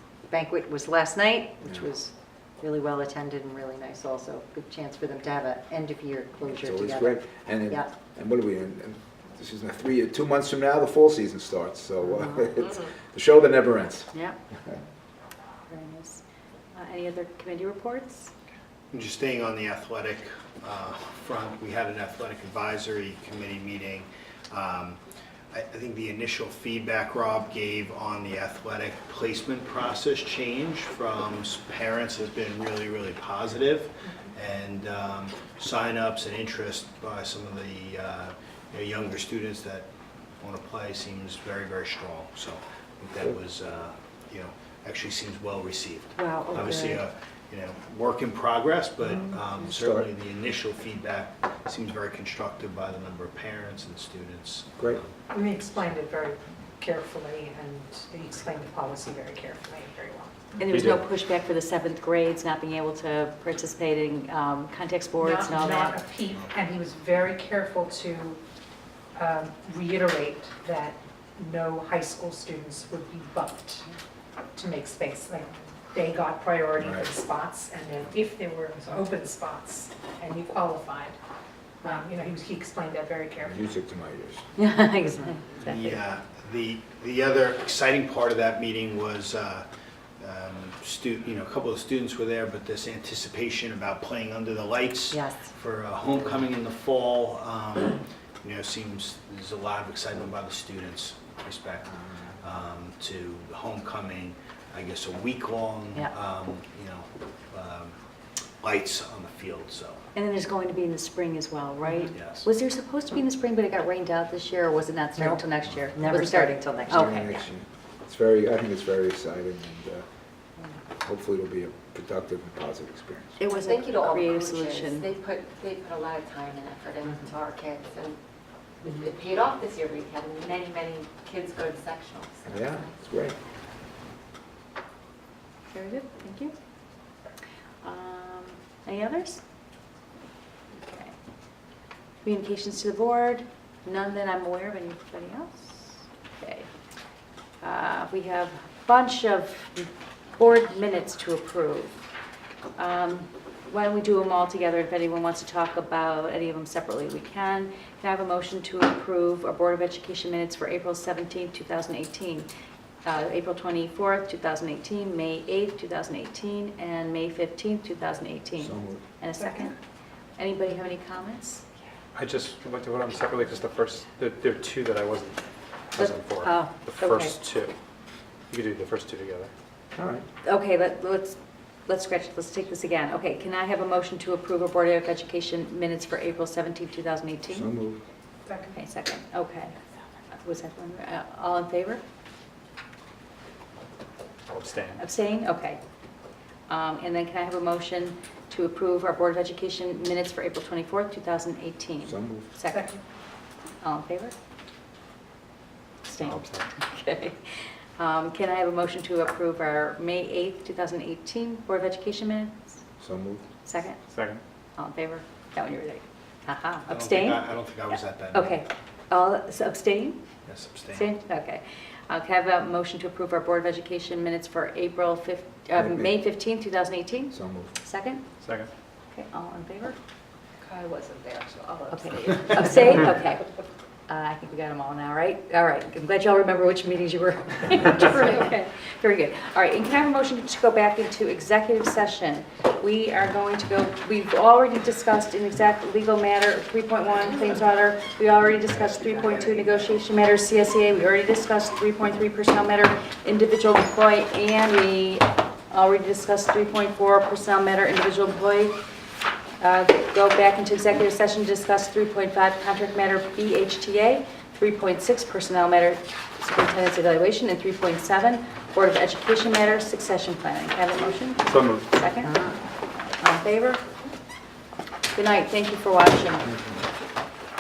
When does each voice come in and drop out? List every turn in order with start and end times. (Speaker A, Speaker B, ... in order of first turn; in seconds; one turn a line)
Speaker A: 0.3-7.9
Speaker B: 6.5-14.1
Speaker C: 14.1-14.4
Speaker C: 15.7-16.2
Speaker C: 16.7-18.3
Speaker D: 18.9-25.0
Speaker D: 25.5-39.9
Speaker D: 40.4-55.2
Speaker A: 46.2-47.0
Speaker B: 49.6-50.1
Speaker E: 55.3-60.4
Speaker C: 60.6-66.0
Speaker F: 60.7-61.0
Speaker E: 65.2-68.4
Speaker E: 69.2-73.9
Speaker E: 74.6-81.2
Speaker B: 76.8-77.1
Speaker E: 81.8-83.6
Speaker B: 83.5-84.4
Speaker C: 84.6-86.0
Speaker D: 85.6-89.7
Speaker D: 90.2-101.9
Speaker A: 95.1-95.5
Speaker D: 102.4-108.0
Speaker D: 108.6-110.0
Speaker C: 110.2-117.4
Speaker D: 112.1-112.5
Speaker A: 115.2-115.4
Speaker A: 116.0-117.1
Speaker B: 116.8-120.0
Speaker B: 121.0-123.4
Speaker C: 123.4-125.1
Speaker G: 123.5-128.2
Speaker G: 128.8-132.5
Speaker B: 132.5-133.4
Speaker C: 135.7-136.5
Speaker C: 137.8-139.4
Speaker C: 140.8-141.1
Speaker C: 142.2-146.7
Speaker C: 147.6-152.0
Speaker C: 152.8-162.5
Speaker C: 163.1-169.7
Speaker B: 168.6-169.0
Speaker E: 169.4-169.7
Speaker C: 170.4-171.7
Speaker F: 172.2-175.4
Speaker F: 175.9-177.7
Speaker C: 176.0-177.4
Speaker F: 178.5-179.5
Speaker B: 179.9-180.2
Speaker C: 180.4-187.7
Speaker B: 187.5-188.0
Speaker E: 188.5-188.8
Speaker C: 188.7-189.8
Speaker C: 190.4-192.0
Speaker F: 194.5-195.0
Speaker C: 195.0-195.8
Speaker C: 196.7-202.9
Speaker B: 202.0-202.5
Speaker E: 202.7-203.0
Speaker C: 203.8-204.3
Speaker C: 206.1-207.4
Speaker F: 206.2-206.7
Speaker C: 208.0-212.8
Speaker B: 213.0-213.4
Speaker C: 213.6-214.0
Speaker F: 214.1-214.4
Speaker C: 214.8-220.2
Speaker D: 216.9-218.6
Speaker D: 220.5-221.1
Speaker C: 220.9-228.2
Speaker B: 225.8-226.2
Speaker B: 227.3-227.7
Speaker F: 228.4-228.7
Speaker C: 229.1-230.0
Speaker E: 230.7-232.0
Speaker C: 231.9-233.5
Speaker C: 234.1-258.8
Speaker D: 248.7-249.8
Speaker C: 259.6-272.4
Speaker F: 271.5-271.9
Speaker C: 273.2-273.8
Speaker C: 275.1-276.6